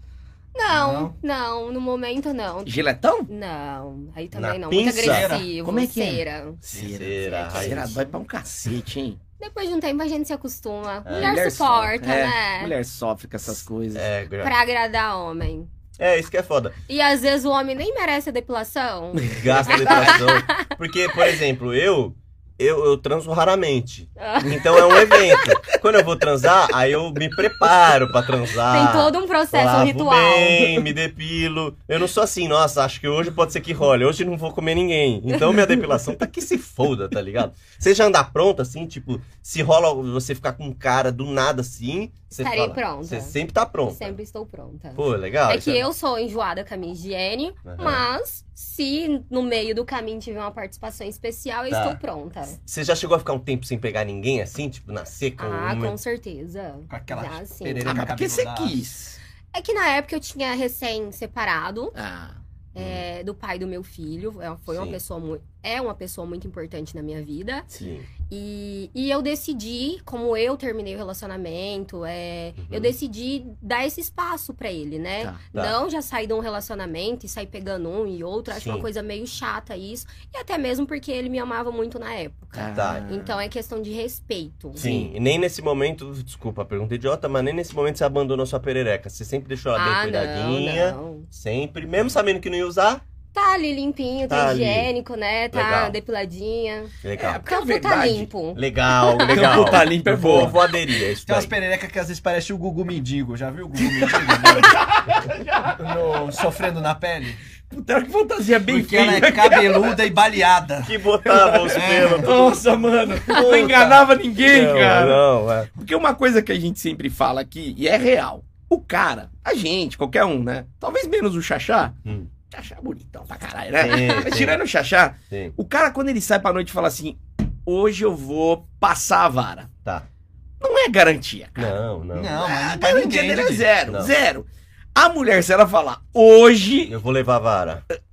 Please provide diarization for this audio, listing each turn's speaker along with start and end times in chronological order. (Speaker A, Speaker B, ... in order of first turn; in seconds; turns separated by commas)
Speaker A: 0.5-8.2, Speaker B: 0.7-1.1, Speaker C: 2.6-3.3, Speaker D: 4.3-5.3, Speaker B: 5.0-5.5, Speaker C: 5.6-9.2, Speaker D: 6.7-7.9, Speaker A: 9.4-12.7, Speaker D: 11.0-11.3, Speaker C: 11.1-14.0, Speaker D: 13.9-14.5, Speaker A: 14.4-15.7, Speaker D: 16.0-16.8, Speaker A: 16.9-21.4, Speaker C: 19.1-20.2, Speaker D: 19.3-44.1, Speaker A: 24.2-25.6, Speaker A: 28.7-30.9, Speaker A: 42.4-43.3, Speaker A: 43.9-52.6, Speaker D: 45.0-45.9, Speaker D: 47.6-48.0, Speaker D: 51.7-52.0, Speaker D: 52.6-56.0, Speaker A: 55.4-58.0, Speaker B: 56.9-58.8, Speaker C: 57.8-59.2, Speaker A: 59.5-61.9, Speaker C: 61.9-62.4, Speaker A: 62.7-67.7, Speaker D: 62.8-63.0, Speaker D: 64.7-65.0, Speaker D: 67.7-68.1, Speaker A: 68.2-84.9, Speaker D: 72.6-72.9, Speaker D: 78.5-78.8, Speaker C: 82.5-83.2, Speaker D: 82.7-83.3, Speaker D: 84.8-93.0, Speaker C: 84.8-85.1, Speaker A: 89.7-91.3, Speaker A: 93.3-99.6, Speaker D: 94.3-94.9, Speaker D: 95.5-95.9, Speaker D: 97.0-97.4, Speaker C: 97.2-98.3, Speaker D: 98.5-101.5, Speaker C: 99.3-100.6, Speaker B: 100.1-100.6, Speaker B: 101.2-104.8, Speaker C: 104.1-106.0, Speaker B: 105.8-107.4, Speaker C: 107.7-109.9, Speaker B: 108.7-111.0, Speaker D: 110.8-112.6, Speaker C: 111.3-115.2, Speaker B: 111.7-112.4, Speaker B: 113.3-114.0, Speaker D: 114.4-115.7, Speaker C: 115.7-122.0, Speaker C: 122.5-129.7, Speaker D: 123.8-124.6, Speaker C: 130.6-131.8, Speaker D: 131.6-132.5, Speaker B: 132.1-133.7, Speaker C: 132.4-136.9, Speaker D: 133.9-134.1, Speaker D: 136.9-137.8